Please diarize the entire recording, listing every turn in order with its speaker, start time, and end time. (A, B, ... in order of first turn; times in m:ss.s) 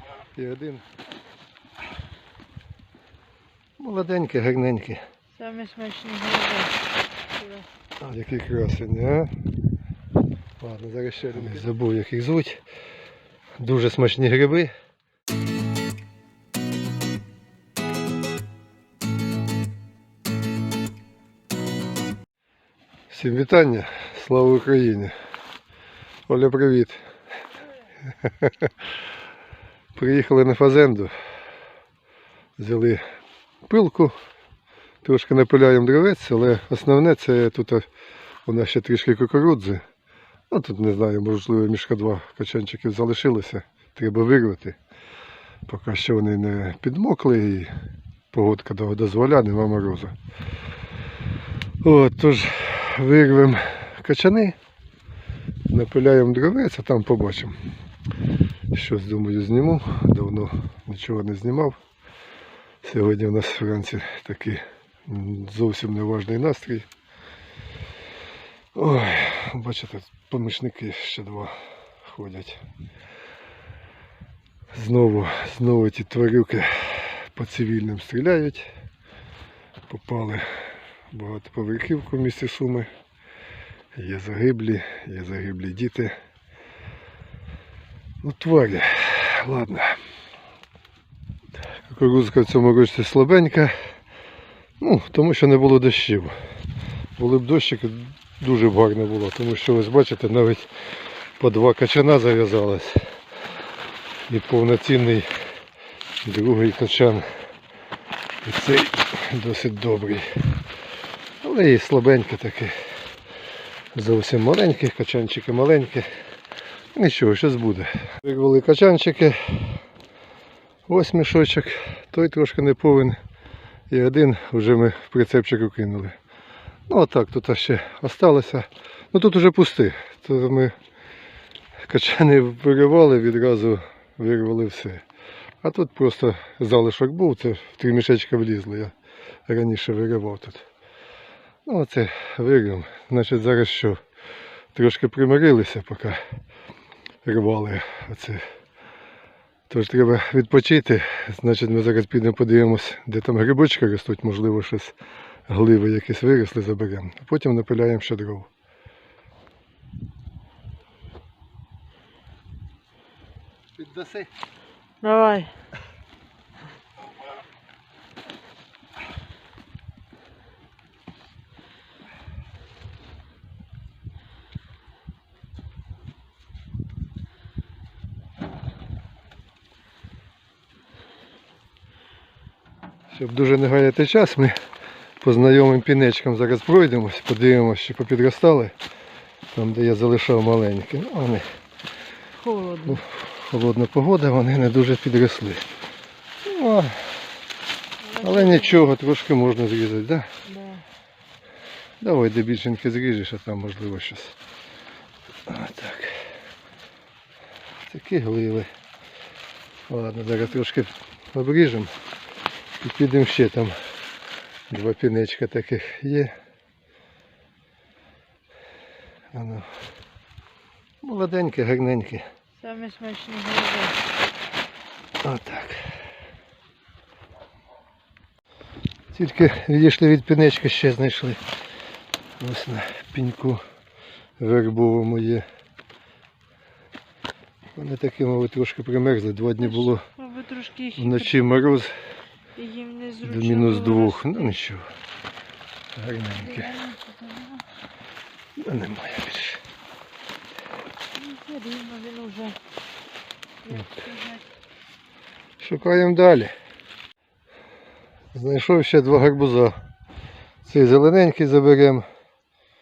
0:00.4-0:00.8 A
0:03.8-0:05.0 A
0:05.4-0:06.8 B
0:07.3-0:07.7 B
0:08.0-0:09.4 A
0:10.6-0:12.6 A
0:13.6-0:14.7 A
0:23.1-0:25.1 A
0:26.3-0:27.0 A
0:28.3-0:28.7 A
0:30.0-0:31.1 A
0:32.6-0:33.0 A
0:33.7-0:34.2 A
0:35.0-0:37.8 A
0:38.4-0:39.8 A
0:40.5-0:44.8 A
0:45.6-0:47.7 A
0:48.3-0:50.1 A
0:51.8-0:54.6 A
0:55.7-0:57.5 A
0:58.7-1:01.8 A
1:02.8-1:06.9 A
1:08.7-1:12.6 A
1:14.7-1:18.7 A
1:19.9-1:20.5 A
1:21.1-1:22.9 A
1:23.9-1:26.1 A
1:28.2-1:30.0 A
1:31.8-1:33.8 A
1:34.8-1:36.3 A
1:37.2-1:40.7 A
1:41.4-1:43.1 A
1:44.3-1:45.3 A
1:46.2-1:47.2 A
1:48.4-1:50.4 A
1:51.4-1:52.7 A
1:53.9-1:56.1 A
1:56.9-1:59.8 A
2:00.9-2:03.2 A
2:03.9-2:06.1 A
2:06.9-2:10.7 A
2:11.8-2:15.0 A
2:15.6-2:18.9 A
2:19.5-2:20.7 A
2:21.6-2:24.0 A
2:24.7-2:26.2 A
2:27.2-2:28.4 A
2:29.7-2:35.0 A
2:35.5-2:38.5 A
2:43.8-2:44.3 A
2:45.0-2:45.5 B
3:03.1-3:04.5 A
3:05.2-3:08.7 A
3:09.5-3:11.4 A
3:12.4-3:13.0 B
3:12.8-3:15.6 A
3:16.4-3:17.1 A
3:18.0-3:18.8 B
3:18.2-3:20.3 A
3:20.4-3:20.8 B
3:22.0-3:24.4 A
3:25.5-3:26.2 A
3:27.9-3:28.7 A
3:29.9-3:31.9 A
3:32.8-3:33.8 A
3:34.7-3:36.3 A
3:39.3-3:39.7 A
3:41.0-3:42.2 A
3:42.6-3:44.0 B
3:45.2-3:45.8 A
3:49.1-3:51.4 A
3:52.4-3:53.6 A
3:54.4-3:55.4 A
3:57.8-4:00.0 A
3:59.6-4:01.4 B
4:01.0-4:01.9 A
4:02.6-4:04.5 B
4:03.2-4:04.8 A
4:05.9-4:06.7 A
4:06.4-4:07.6 B
4:08.6-4:09.6 A
4:11.1-4:12.6 B
4:13.6-4:14.4 B
4:15.6-4:16.5 A
4:18.3-4:19.8 A
4:20.6-4:22.0 A